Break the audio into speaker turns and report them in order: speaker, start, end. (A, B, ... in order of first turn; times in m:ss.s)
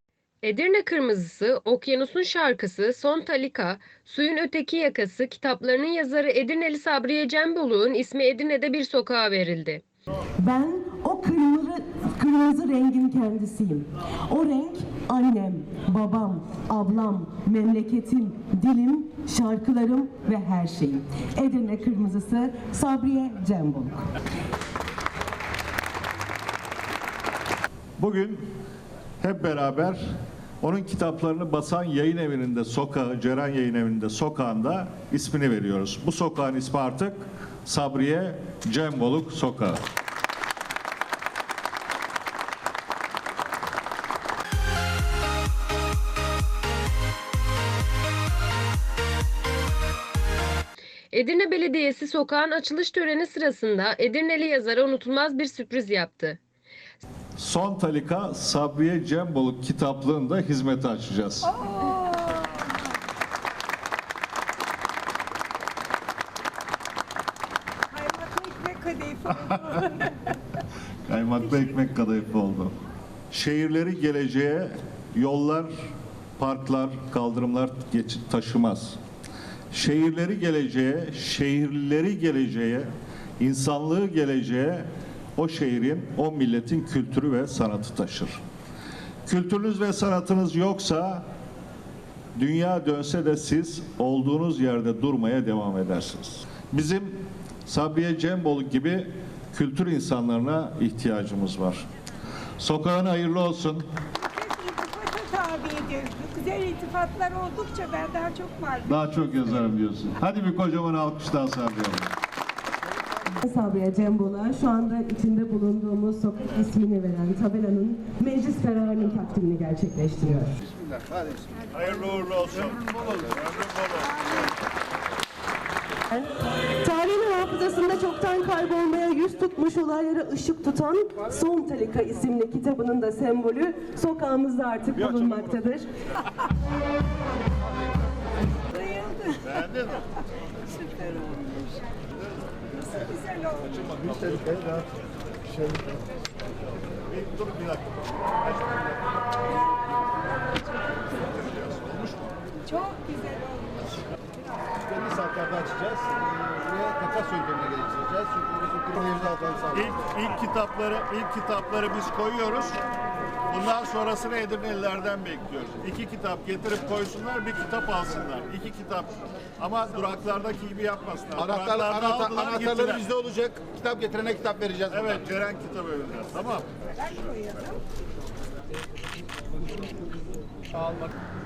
0:00.4-0:09.8 A
0:10.4-0:24.0 B
0:28.0-0:28.4 C
0:29.2-0:30.0 C
0:30.6-0:39.8 C
0:51.1-0:56.4 A
0:57.4-1:01.5 C
1:01.5-1:02.7 D
1:07.9-1:10.1 D
1:11.1-1:12.8 C
1:13.3-1:15.7 C
1:16.4-1:19.0 C
1:19.7-1:28.4 C
1:29.3-1:31.2 C
1:32.4-1:41.8 C
1:42.6-1:43.8 C
1:44.2-1:48.9 D
1:48.8-1:52.1 C
1:53.4-2:00.5 B
2:01.7-2:04.2 C
2:06.1-2:15.9 B
2:18.7-2:19.4 D
2:19.4-2:20.1 C
2:20.7-2:21.9 D
2:22.7-2:23.8 D
2:27.1-2:28.9 C
2:31.4-2:32.3 C
2:32.6-2:33.8 D
2:34.8-2:39.7 E
2:39.7-2:42.8 C
2:43.5-2:53.1 C
2:51.4-2:55.1 E
2:54.9-2:57.4 C